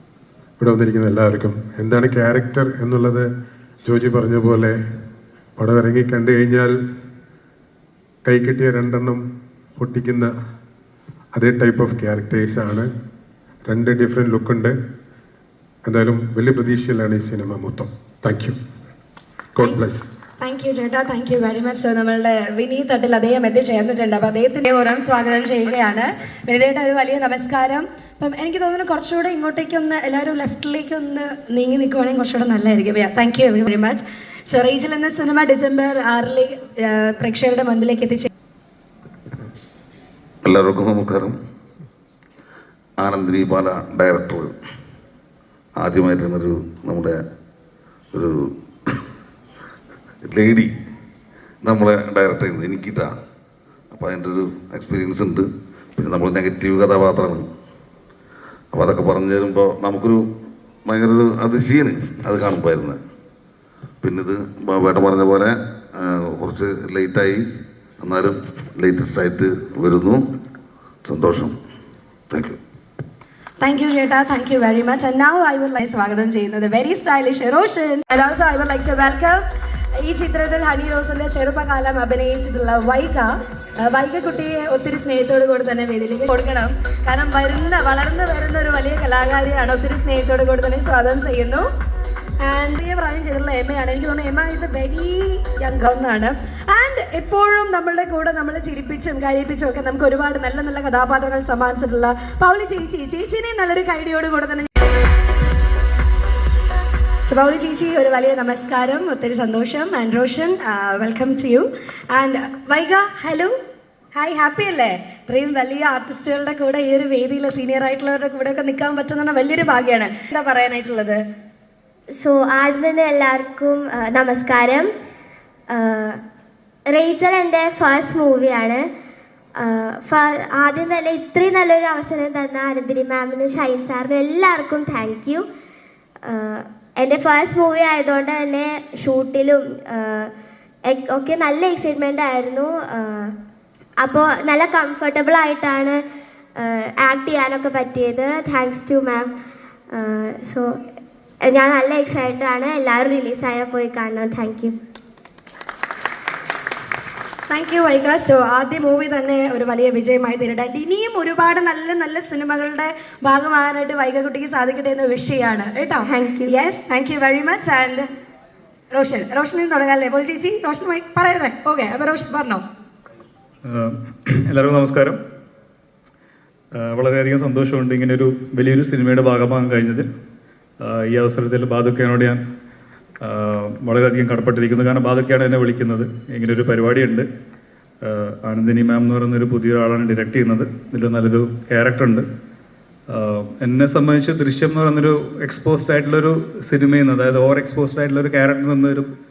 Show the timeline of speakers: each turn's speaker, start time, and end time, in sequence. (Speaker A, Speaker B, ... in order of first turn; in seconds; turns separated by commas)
Speaker A: 0.6-3.3, Speaker A: 3.8-4.8, Speaker A: 5.6-6.8, Speaker A: 8.2-9.2, Speaker A: 9.8-10.3, Speaker A: 11.3-12.9, Speaker A: 13.7-14.8, Speaker A: 15.8-18.6, Speaker A: 19.6-20.1, Speaker B: 20.4-38.3, Speaker C: 40.5-41.3, Speaker C: 43.0-44.5, Speaker C: 45.8-47.1, Speaker C: 50.3-50.7, Speaker C: 51.6-53.1, Speaker C: 53.9-55.4, Speaker C: 56.0-57.4, Speaker C: 58.7-60.2, Speaker C: 60.9-63.0, Speaker C: 64.0-67.4, Speaker C: 68.0-70.2, Speaker C: 71.0-71.5, Speaker B: 73.6-79.4, Speaker B: 80.0-91.7, Speaker B: 92.4-104.7, Speaker B: 107.2-113.5, Speaker B: 114.1-121.2, Speaker D: 122.1-124.9, Speaker D: 125.7-126.2, Speaker D: 126.9-128.8, Speaker D: 129.6-135.4, Speaker D: 136.2-140.3, Speaker D: 140.9-143.3, Speaker D: 144.0-146.0, Speaker D: 146.6-149.3, Speaker D: 149.9-150.8, Speaker D: 151.4-154.8, Speaker B: 157.5-168.1, Speaker D: 166.0-166.5, Speaker B: 168.9-172.6, Speaker E: 173.7-175.2, Speaker E: 176.7-180.1, Speaker E: 180.8-182.4, Speaker E: 183.2-187.2, Speaker E: 188.0-192.2, Speaker E: 193.1-199.1